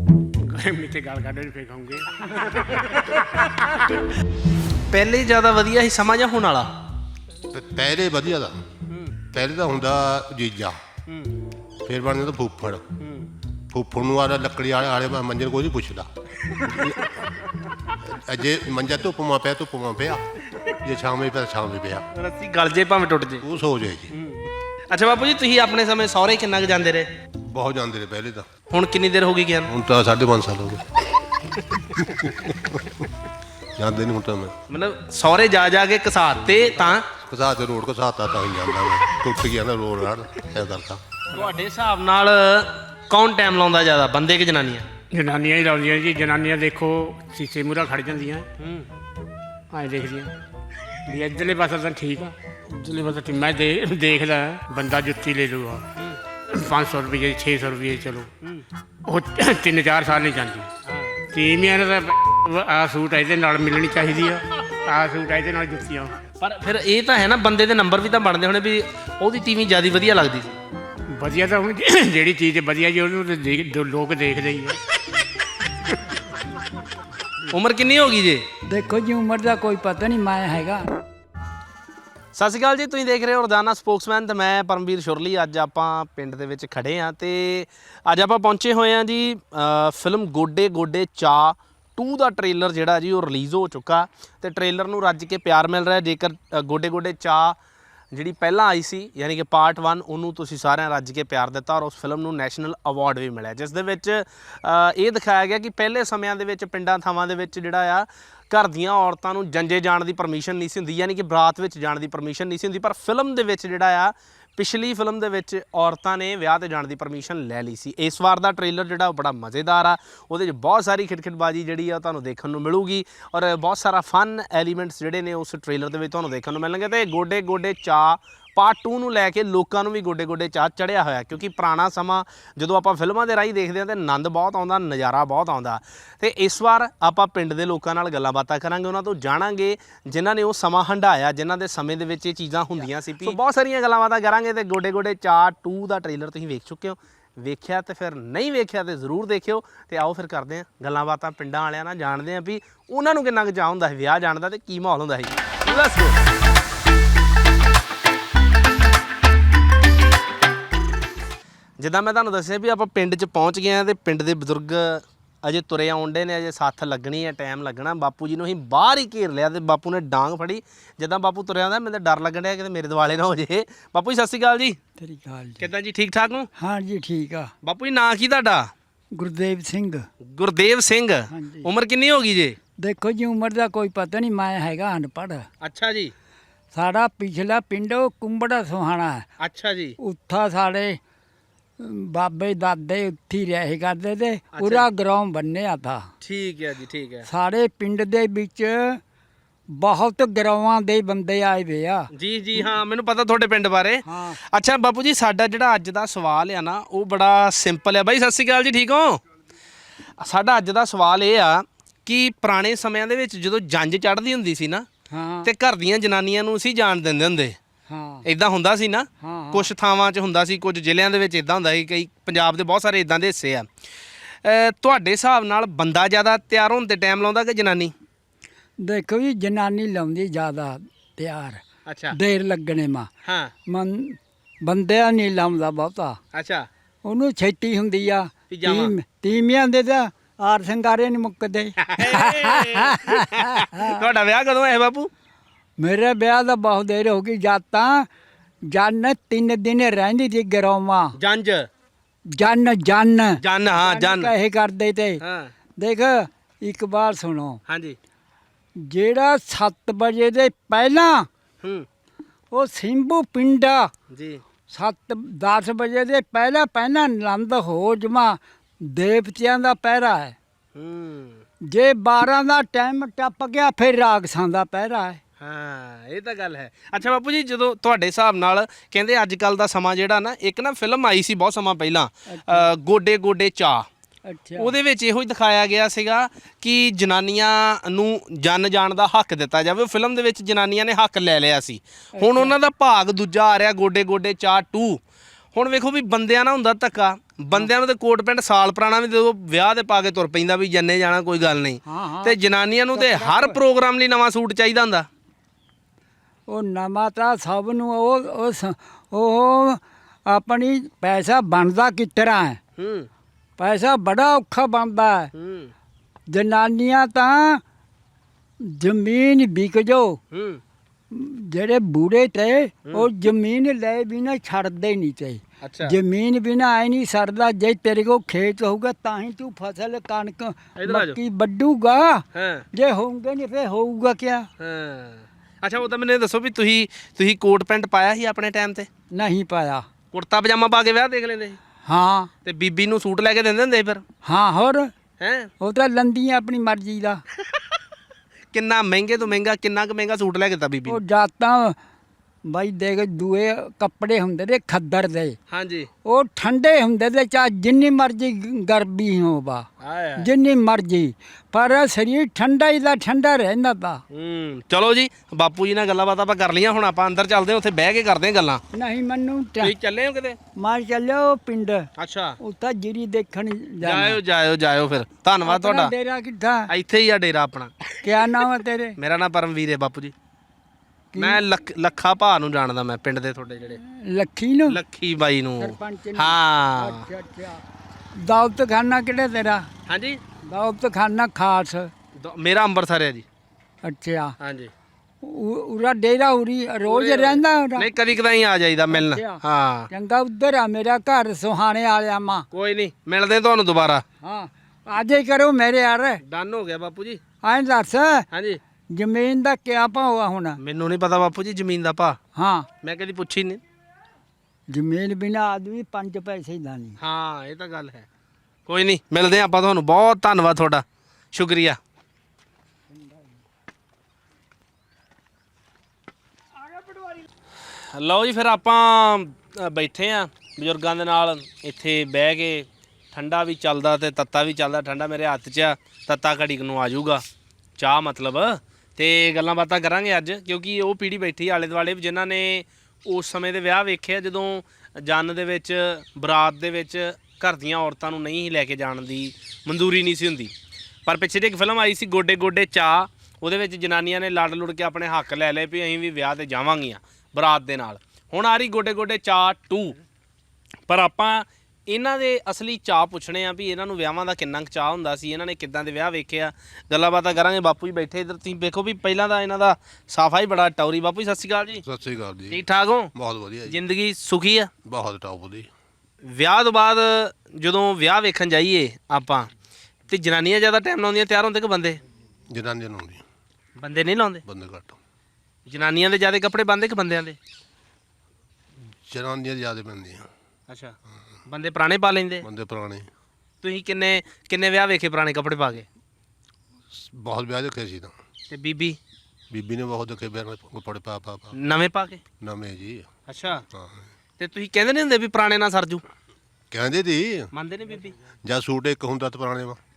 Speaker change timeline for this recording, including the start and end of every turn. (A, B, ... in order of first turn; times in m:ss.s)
0:00.4-0:03.8 A
0:02.7-0:03.0 B
0:04.9-0:06.7 B
0:07.5-0:08.6 C
0:08.9-0:09.2 B
0:09.3-0:10.8 C
0:11.1-0:11.4 B
0:11.8-0:12.8 C
0:13.0-0:13.3 B
0:13.7-0:17.3 C
0:16.5-0:16.9 B
0:18.0-0:20.2 C
0:20.8-0:22.0 C
0:22.1-0:23.4 B
0:23.4-0:24.1 C
0:24.1-0:27.1 B
0:27.5-0:28.5 C
0:28.7-0:29.7 B
0:29.6-0:31.0 C
0:31.9-0:33.1 C
0:33.8-0:34.5 C
0:34.7-0:37.1 B
0:37.1-0:41.0 C
0:41.3-0:44.9 B
0:45.1-0:48.5 A
0:48.6-0:48.9 B
0:49.7-0:50.3 A
0:51.0-0:55.9 A
0:56.5-0:58.3 A
0:59.0-1:00.7 A
1:00.8-1:01.2 B
1:01.3-1:06.2 A
1:06.4-1:10.5 B
1:11.1-1:14.8 A
1:17.5-1:18.4 B
1:18.7-1:20.9 D
1:22.3-1:37.6 B
1:38.1-2:36.2 B
2:41.8-2:54.8 B
2:55.0-2:55.7 D
2:55.6-2:56.5 B
2:56.6-2:57.5 D
2:57.6-2:58.7 B
2:59.2-3:00.0 D
3:00.2-3:02.6 B
3:01.3-3:01.7 D
3:02.8-3:05.5 D
3:05.6-3:06.1 B
3:06.7-3:09.2 D
3:09.4-3:10.0 B
3:10.0-3:11.0 D
3:11.8-3:16.1 D
3:14.6-3:14.9 B
3:16.2-3:17.3 B
3:17.3-3:19.0 D
3:19.7-3:22.7 D
3:22.1-3:29.2 B
3:24.0-3:24.4 D
3:30.2-3:34.9 B
3:35.1-3:35.5 D
3:35.4-3:37.6 B
3:37.9-3:38.2 D
3:38.2-3:43.7 B
3:39.2-3:39.7 D
3:44.4-3:47.9 B
3:48.8-3:53.1 D
3:51.8-3:52.2 B
3:53.2-3:53.5 B
3:53.7-3:56.2 D
3:56.3-3:56.7 B
3:57.0-4:04.1 D
3:58.5-3:58.9 B
4:01.9-4:05.1 B
4:05.8-4:08.1 D
4:08.7-4:11.1 D
4:11.2-4:11.7 B
4:12.3-4:15.2 D
4:13.4-4:14.3 B
4:15.2-4:15.5 B
4:15.8-4:17.6 D
4:17.7-4:18.0 B
4:18.8-4:21.3 D
4:22.5-4:23.9 D
4:24.1-4:24.4 B
4:24.7-4:30.4 D
4:30.7-4:31.4 B
4:31.7-4:35.2 D
4:35.4-4:43.9 B
4:42.3-4:42.7 D
4:44.2-4:44.7 D
4:44.6-4:55.0 B
4:52.2-4:52.5 D
4:55.5-5:05.1 B
5:01.9-5:02.4 D
5:02.9-5:03.6 D
5:06.5-5:12.6 D
5:12.8-5:13.1 B
5:13.6-5:15.3 D
5:15.3-5:15.7 B
5:16.3-5:17.6 D
5:18.6-5:20.2 D
5:20.3-5:20.6 B
5:21.1-5:34.5 D
5:25.6-5:26.0 B
5:30.8-5:31.2 B
5:32.3-5:32.6 B
5:34.6-5:38.9 B
5:39.1-5:39.9 D
5:40.1-5:41.6 B
5:41.8-5:42.3 D
5:42.4-5:44.0 B
5:44.2-5:44.9 D
5:45.2-5:45.5 B
5:45.6-5:47.2 D
5:47.4-5:47.8 B
5:48.5-5:51.0 B
5:50.9-5:51.8 D
5:52.4-5:55.4 D
5:55.5-5:55.9 B
5:56.0-5:59.7 D
5:59.8-6:00.3 B
6:00.2-6:04.0 D
6:04.1-6:08.6 B
6:08.7-6:09.7 D
6:09.6-6:10.4 B
6:10.6-6:11.9 D
6:12.0-6:12.4 B
6:12.4-6:14.2 D
6:13.8-6:15.9 B
6:15.4-6:16.7 D
6:16.7-6:17.9 B
6:18.0-6:19.0 D
6:19.0-6:20.1 B
6:21.1-6:21.4 D
6:21.2-6:23.8 B
6:23.8-6:24.8 D
6:24.7-6:27.0 B
6:25.6-6:27.6 D
6:28.2-6:29.7 D
6:29.9-6:30.2 B
6:30.4-6:31.9 D
6:32.2-6:33.2 B
6:33.8-6:34.3 D
6:34.4-6:34.7 B
6:35.2-6:37.9 D
6:36.8-6:39.9 B
6:38.9-6:39.4 D
6:39.9-6:42.4 D
6:42.5-6:44.0 B
6:44.2-6:46.2 D
6:46.2-6:47.2 B
6:47.4-6:48.2 D
6:48.3-6:48.6 B
6:48.9-6:50.6 D
6:50.6-6:52.2 B
6:52.4-6:52.7 D
6:52.8-6:53.6 B
6:54.7-6:57.0 D
6:57.0-6:58.0 B
6:58.7-7:01.8 B
7:02.9-7:03.3 D
7:07.9-7:17.2 B
7:17.8-7:30.5 B
7:31.0-7:40.0 B
7:40.9-7:51.8 B
7:51.8-7:53.8 C
7:52.5-7:53.1 B
7:53.7-7:54.7 B
7:54.8-7:55.7 C
7:56.2-7:59.5 B
8:00.1-8:02.0 B
8:02.5-8:03.2 C
8:03.8-8:04.4 B
8:04.4-8:05.0 C
8:05.6-8:07.4 B
8:09.0-8:10.3 C
8:10.7-8:10.9 B
8:11.5-8:12.4 B
8:12.4-8:13.1 C
8:13.6-8:15.8 B
8:16.9-8:18.1 C
8:18.5-8:19.0 B
8:19.5-8:21.6 C
8:21.5-8:22.2 B
8:22.4-8:23.1 C
8:23.3-8:23.6 B
8:23.7-8:24.0 C
8:24.4-8:26.0 B
8:26.7-8:27.5 C
8:27.5-8:28.1 B
8:28.4-8:29.8 C